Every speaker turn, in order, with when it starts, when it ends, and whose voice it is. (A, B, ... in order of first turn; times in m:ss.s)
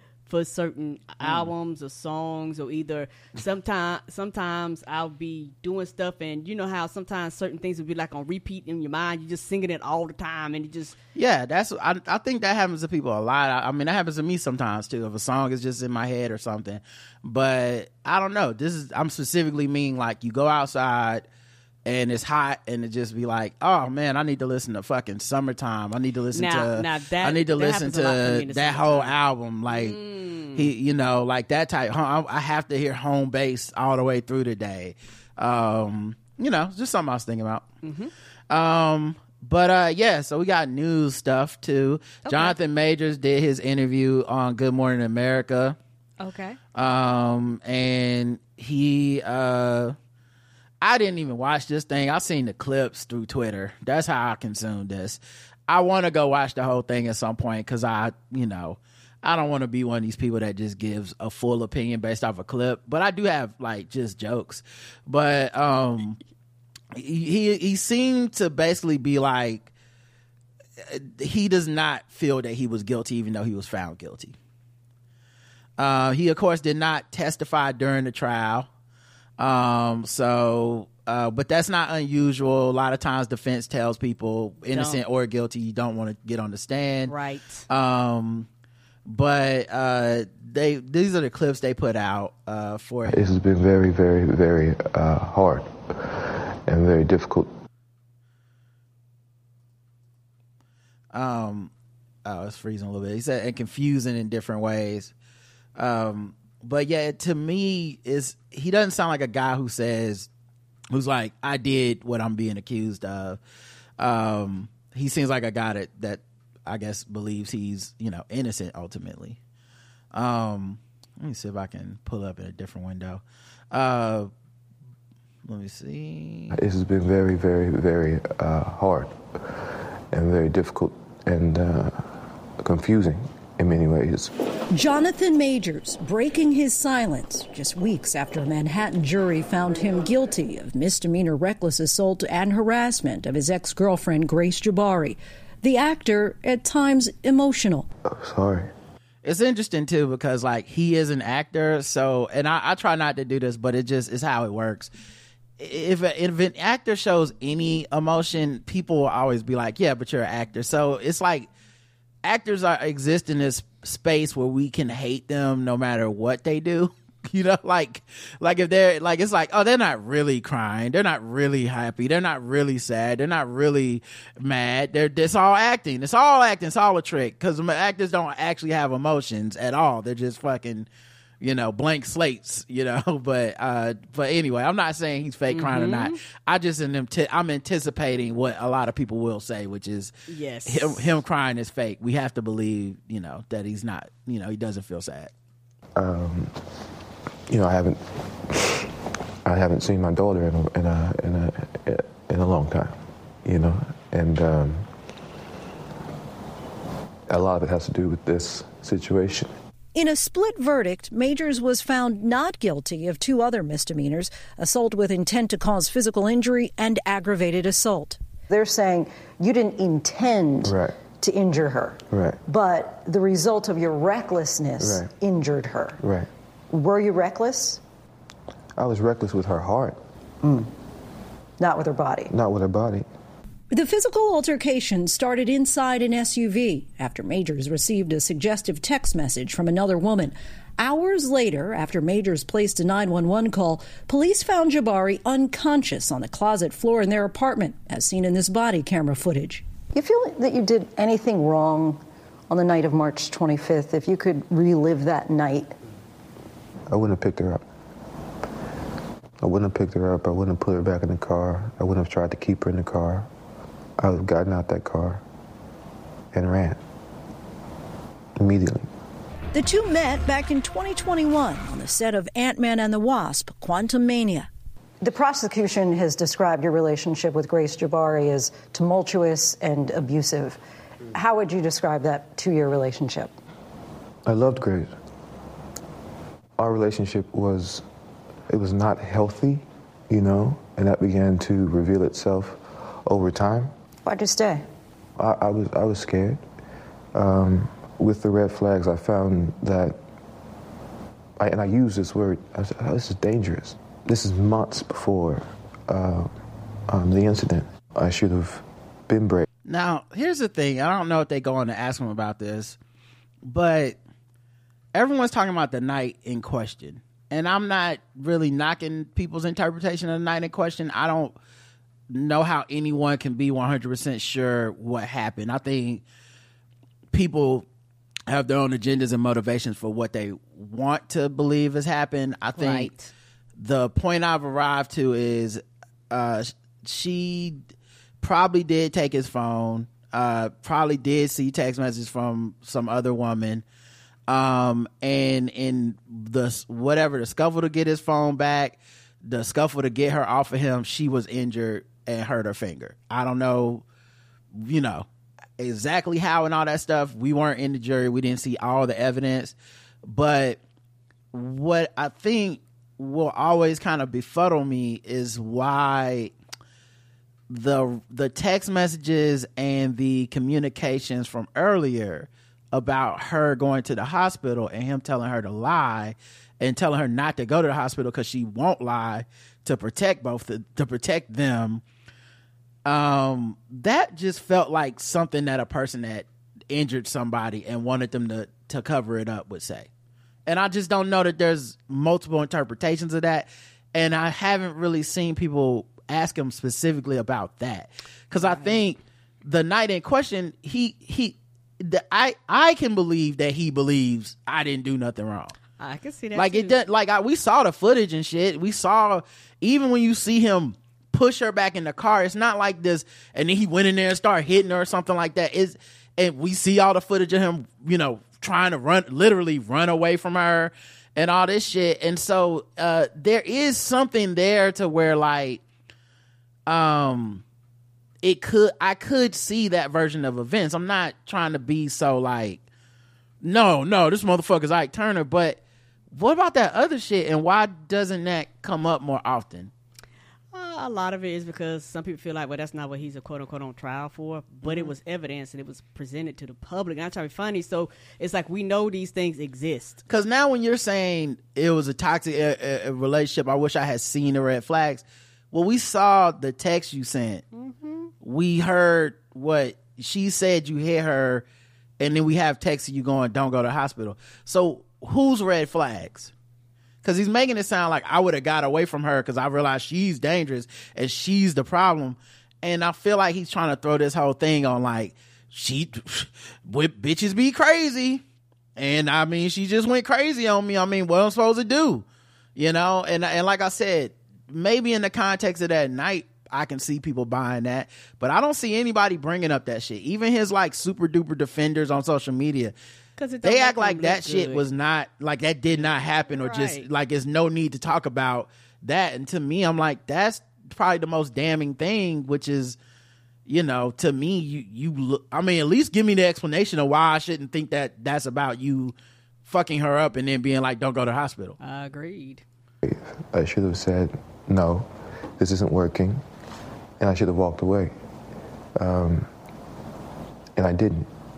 0:00.3-0:11.0 A
0:01.2-0:01.5 B
0:11.2-0:21.3 B
0:21.9-0:30.0 B
0:26.3-0:29.2 A
0:29.7-0:30.7 A
0:30.5-0:37.7 B
0:37.8-0:38.1 A
0:38.5-0:45.8 B
0:42.3-0:42.6 A
0:46.2-0:46.6 A
0:46.8-0:50.0 B
0:50.8-1:06.2 B
1:06.9-1:09.7 B
1:10.8-1:14.4 B
1:15.8-1:18.7 B
1:19.4-1:27.1 B
1:24.7-1:25.0 A
1:27.1-1:27.7 A
1:27.7-1:28.5 B
1:29.1-1:33.2 B
1:33.1-1:37.5 C
1:41.1-1:41.7 B
1:42.2-1:45.1 B
1:45.8-1:50.3 B
1:50.9-1:53.4 B
1:54.0-1:59.4 B
2:00.1-2:04.3 B
2:05.5-2:06.6 B
2:06.5-2:09.2 C
2:10.1-2:14.3 C
2:14.7-2:27.9 D
2:28.0-2:28.7 C
2:29.2-2:34.9 B
2:35.6-2:41.5 B
2:42.2-3:00.9 B
3:01.4-3:10.1 B
3:05.5-3:06.2 A
3:10.3-3:11.1 A
3:10.7-3:15.3 B
3:16.0-3:16.6 C
3:17.5-3:18.8 C
3:19.4-3:24.9 C
3:27.3-3:29.6 C
3:30.0-3:38.2 D
3:38.5-3:46.0 E
3:40.6-3:41.0 C
3:42.1-3:42.4 C
3:44.8-3:45.1 C
3:46.0-3:46.3 C
3:46.7-3:47.8 E
3:48.8-3:50.0 C
3:51.6-3:52.3 E
3:52.3-3:53.1 C
3:53.7-4:09.6 D
4:09.9-4:15.8 E
4:16.9-4:17.6 C
4:19.4-4:23.3 C
4:24.0-4:25.2 C
4:26.3-4:26.8 C
4:28.4-4:28.9 C
4:29.5-4:34.5 D
4:35.0-4:40.6 E
4:41.1-4:43.3 E
4:44.2-4:44.9 C
4:46.6-4:47.9 C
4:48.5-4:53.7 C
4:54.0-4:54.7 E
4:55.2-4:56.4 C
4:57.1-5:00.0 C
5:01.4-5:06.3 C
5:06.9-5:09.4 C
5:09.6-5:12.8 B
5:13.5-5:14.0 B
5:14.9-5:21.4 B
5:22.1-5:26.0 B
5:27.1-5:27.6 B
5:28.3-5:32.9 B
5:32.6-5:33.1 A
5:33.6-5:37.6 B
5:38.2-5:43.6 B
5:44.3-5:53.8 B
5:54.6-5:55.1 B
5:55.6-6:00.6 B
6:01.3-6:06.3 B
6:07.5-6:21.8 B
6:22.8-6:29.9 B
6:30.5-6:45.6 B
6:38.4-6:38.8 A
6:45.8-6:46.7 A
6:46.4-7:05.6 B
7:06.7-7:07.4 B
7:08.2-7:12.6 B
7:13.4-7:15.6 B
7:16.1-7:19.7 B
7:20.5-7:30.0 A
7:24.6-7:24.9 B
7:30.1-7:37.4 B
7:37.6-7:38.1 A
7:38.2-7:41.4 B
7:42.0-7:46.3 B
7:47.0-7:58.2 B
7:58.8-8:02.0 B
8:02.6-8:12.7 B
8:13.2-8:14.6 A
8:13.4-8:22.8 B
8:16.3-8:16.9 A
8:23.5-8:31.6 B
8:31.6-8:32.4 A
8:32.8-8:36.2 C
8:37.0-8:37.9 C
8:38.8-8:39.3 C
8:40.6-8:41.1 C